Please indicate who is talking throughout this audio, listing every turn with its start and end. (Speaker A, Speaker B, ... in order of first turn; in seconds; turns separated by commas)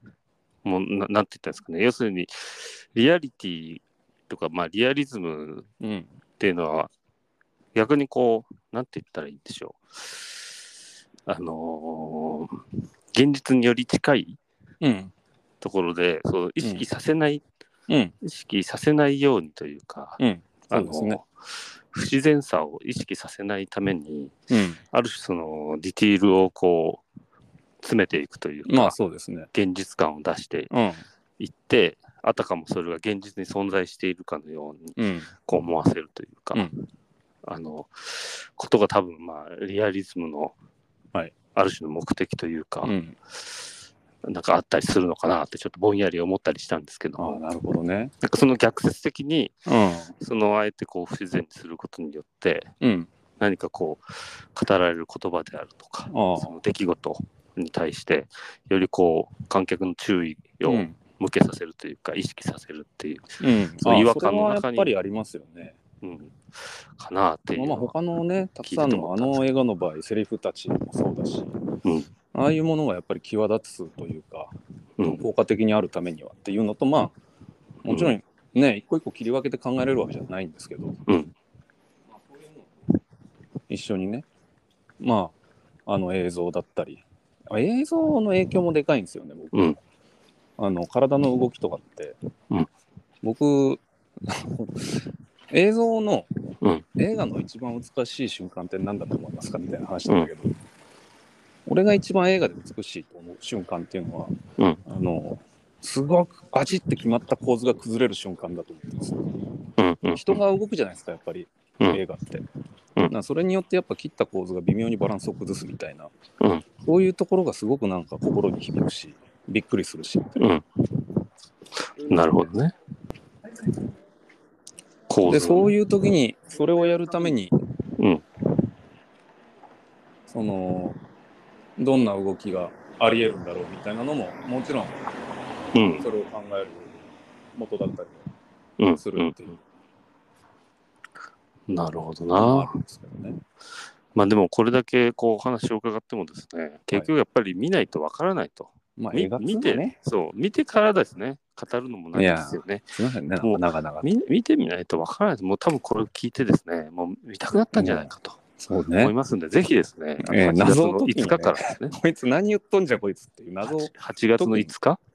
Speaker A: 0.7-5.7, Speaker B: 5.8-6.1, Speaker A: 6.4-6.9, Speaker A: 7.8-10.7, Speaker A: 11.3-12.5, Speaker A: 13.1-14.4, Speaker B: 14.8-15.1, Speaker A: 15.6-17.4, Speaker B: 16.6-16.9, Speaker B: 17.9-18.1, Speaker A: 18.2-24.4, Speaker B: 20.2-21.2, Speaker B: 24.5-24.8, Speaker A: 24.9-27.0, Speaker A: 27.8-29.0, Speaker B: 28.6-29.5, Speaker A: 29.5-30.7, Speaker B: 30.7-31.1, Speaker A: 31.4-36.7, Speaker B: 35.0-35.3, Speaker B: 36.5-36.8, Speaker A: 37.4-40.6, Speaker A: 41.5-43.7, Speaker B: 42.8-43.2, Speaker A: 44.2-47.4, Speaker B: 47.2-48.1, Speaker A: 48.2-49.6, Speaker B: 49.7-50.2, Speaker A: 50.2-52.7, Speaker B: 52.8-53.1, Speaker A: 53.4-64.9, Speaker B: 56.1-56.6, Speaker B: 60.6-61.0, Speaker B: 63.4-65.8, Speaker A: 66.0-67.9, Speaker B: 67.6-71.5, Speaker A: 68.6-69.5, Speaker B: 72.3-77.1, Speaker A: 75.0-75.2, Speaker B: 77.8-81.0, Speaker A: 77.9-78.2, Speaker A: 81.1-81.3, Speaker B: 83.7-84.3, Speaker B: 85.0-85.3, Speaker B: 85.9-89.8, Speaker B: 90.6-92.2, Speaker B: 93.2-96.3, Speaker B: 97.0-100.5, Speaker B: 101.7-104.3, Speaker B: 104.9-109.5, Speaker A: 109.8-110.4, Speaker B: 110.1-112.4, Speaker B: 113.1-116.1, Speaker B: 116.8-120.4, Speaker A: 120.3-120.7, Speaker A: 122.0-122.8, Speaker A: 125.1-125.7, Speaker B: 125.3-127.5, Speaker A: 128.0-128.3, Speaker B: 130.3-131.0, Speaker B: 131.8-135.0, Speaker A: 135.7-136.1, Speaker B: 136.0-138.3, Speaker A: 138.8-139.4, Speaker B: 139.0-139.6, Speaker A: 141.7-142.7, Speaker B: 142.3-143.4, Speaker A: 144.2-152.9, Speaker B: 149.0-150.0, Speaker B: 152.2-154.1, Speaker A: 153.4-158.4, Speaker B: 157.8-159.1, Speaker A: 159.0-162.0, Speaker B: 160.2-164.7, Speaker A: 163.6-165.0